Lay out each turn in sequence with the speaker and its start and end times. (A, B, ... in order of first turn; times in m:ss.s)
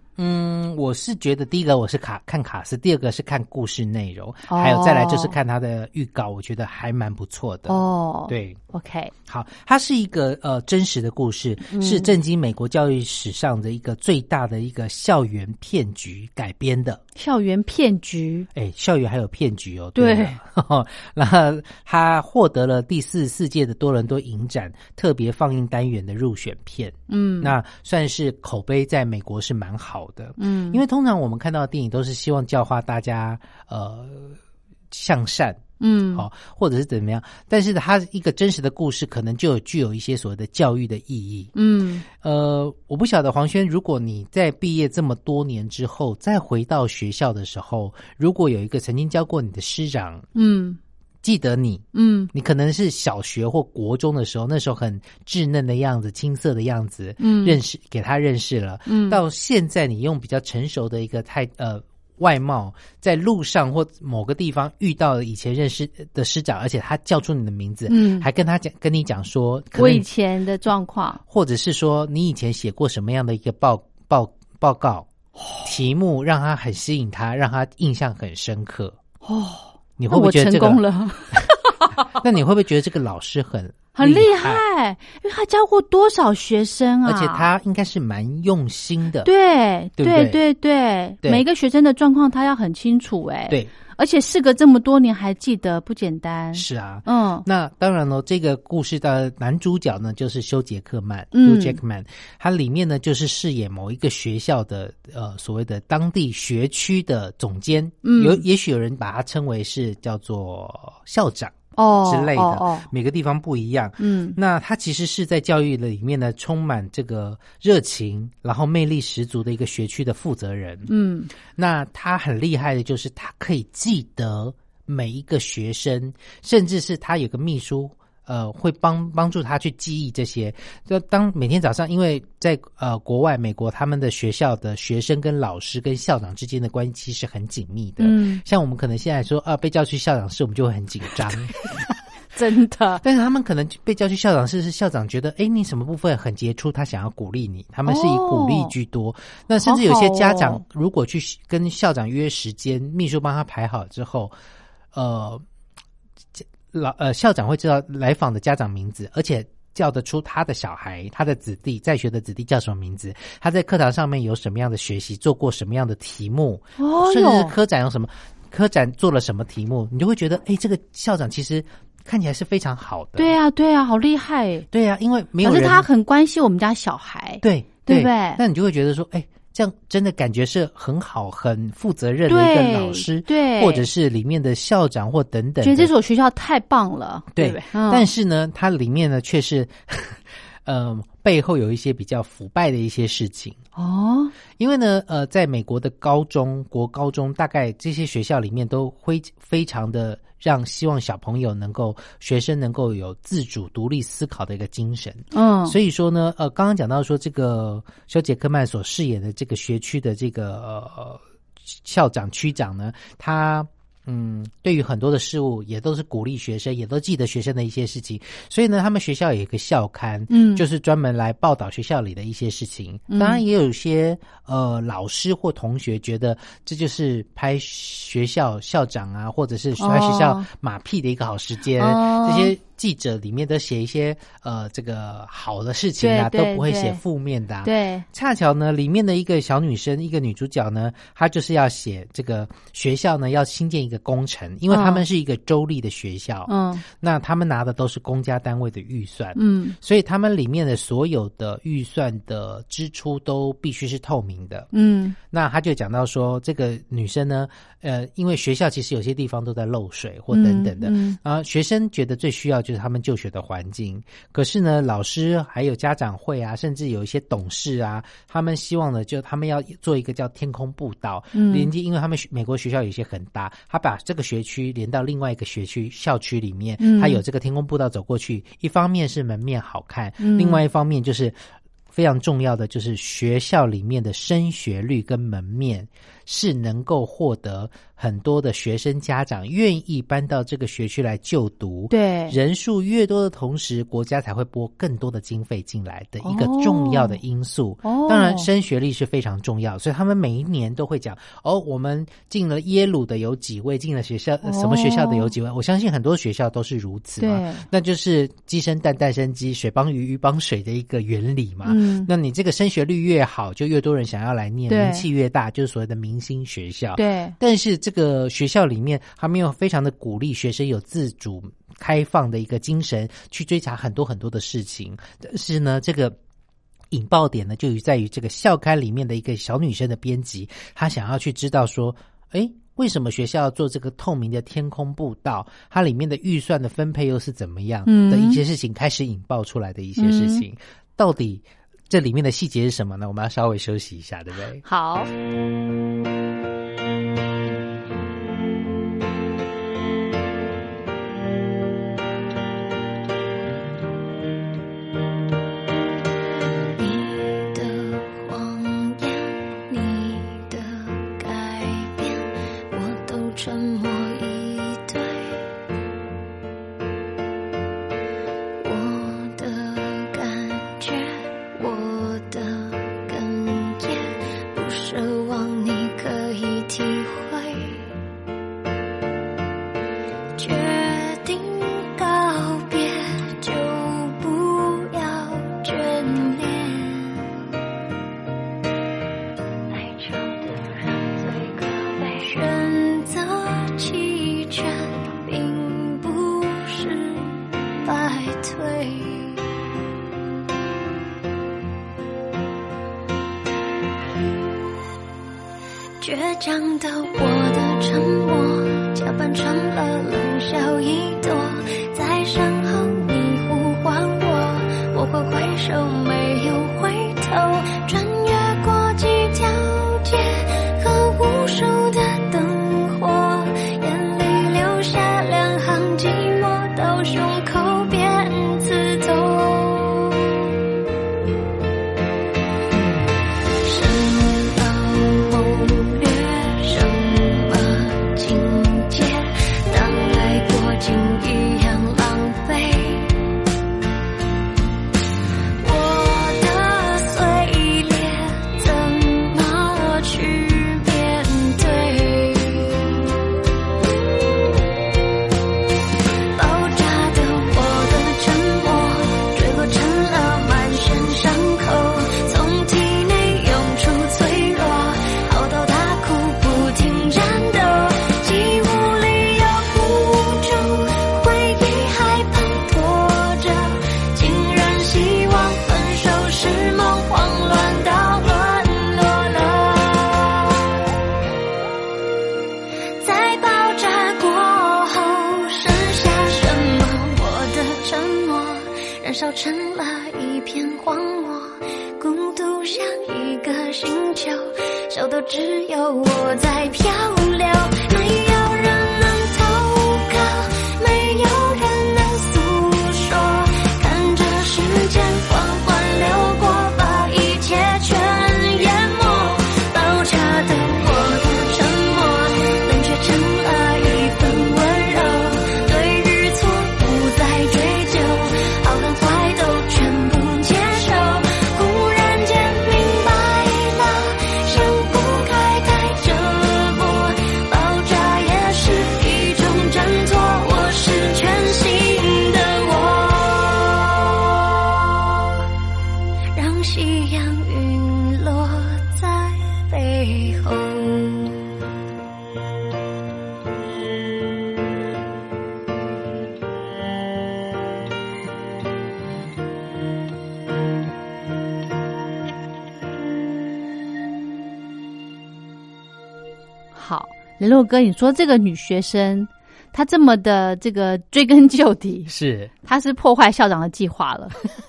0:00.2-0:08.6 A
0:04.5-0:05.4 B
0:07.7-0:09.1 B
0:09.3-0:17.0 A
0:11.7-0:12.2 B
0:17.2-0:18.5 B
0:18.5-0:34.4 A
0:20.0-0:20.4 B
0:27.1-0:27.5 B
0:30.4-0:30.8 B
0:34.9-0:41.5 A
0:35.8-0:36.2 B
0:41.5-0:42.0 B
0:42.1-0:50.2 A
0:50.3-0:50.8 B
0:51.2-1:10.0 A
0:51.9-0:52.3 B
0:57.2-0:57.6 B
0:58.9-0:59.2 B
1:07.9-1:08.3 B
1:09.7-1:11.2 B
1:11.3-1:15.1 A
1:15.4-1:15.7 B
1:15.6-1:19.0 A
1:19.2-1:21.9 B
1:20.0-1:21.5 A
1:22.0-1:24.6 A
1:24.0-1:27.5 B
1:27.0-1:29.3 A
1:29.2-1:37.4 B
1:30.0-1:30.4 A
1:36.5-2:00.9 A
1:41.3-1:41.8 B
1:48.0-1:48.4 B
1:51.8-1:52.9 B
1:54.0-1:54.4 B
2:00.9-2:01.3 B
2:01.4-2:21.5 A
2:18.0-2:18.4 B
2:22.3-2:23.0 B
2:23.0-2:34.4 A
2:27.8-2:28.7 B
2:29.6-2:30.6 B
2:34.9-2:35.4 A
2:36.4-2:53.4 A
2:46.8-2:47.5 B
2:53.2-2:54.6 B
2:54.7-2:55.9 A
2:55.4-2:58.4 B
2:57.4-3:05.9 A
3:02.3-3:03.9 B
3:05.6-3:08.1 B
3:07.3-3:13.6 A
3:13.8-3:14.3 B
3:14.6-4:14.7 A
3:25.3-3:25.8 B
3:40.3-3:40.6 B
3:43.1-3:43.4 B
3:49.8-3:50.5 B
3:51.8-3:52.5 B
3:56.0-3:57.0 B
3:57.6-3:58.0 B
4:04.7-4:05.0 B
4:06.5-4:06.8 B
4:09.4-4:09.8 B
4:14.7-4:15.2 B
4:15.3-4:41.4 A
4:20.3-4:21.2 B
4:31.3-4:31.7 B
4:36.8-4:37.2 B
4:40.2-4:40.6 B
4:41.9-5:26.2 A
4:51.9-4:52.4 B
4:56.2-4:57.2 B
4:57.8-4:58.5 B
5:04.4-5:05.3 B
5:07.2-5:07.6 B
5:11.6-5:12.1 B
5:14.7-5:15.0 B
5:17.0-5:17.3 B
5:26.9-5:44.6 A
5:37.8-5:38.4 B
5:40.0-5:40.4 B
5:44.6-5:45.1 B
5:56.8-6:05.5 C
6:08.6-6:17.9 C
6:20.4-6:27.4 C
6:29.7-6:39.4 C
6:46.0-7:10.4 C
7:13.6-7:23.2 C
7:25.6-7:33.0 C
7:36.3-8:00.6 C
8:03.0-8:54.8 C
8:56.3-9:01.4 C
9:16.7-9:22.1 B
9:22.1-9:22.5 A
9:22.6-9:24.4 B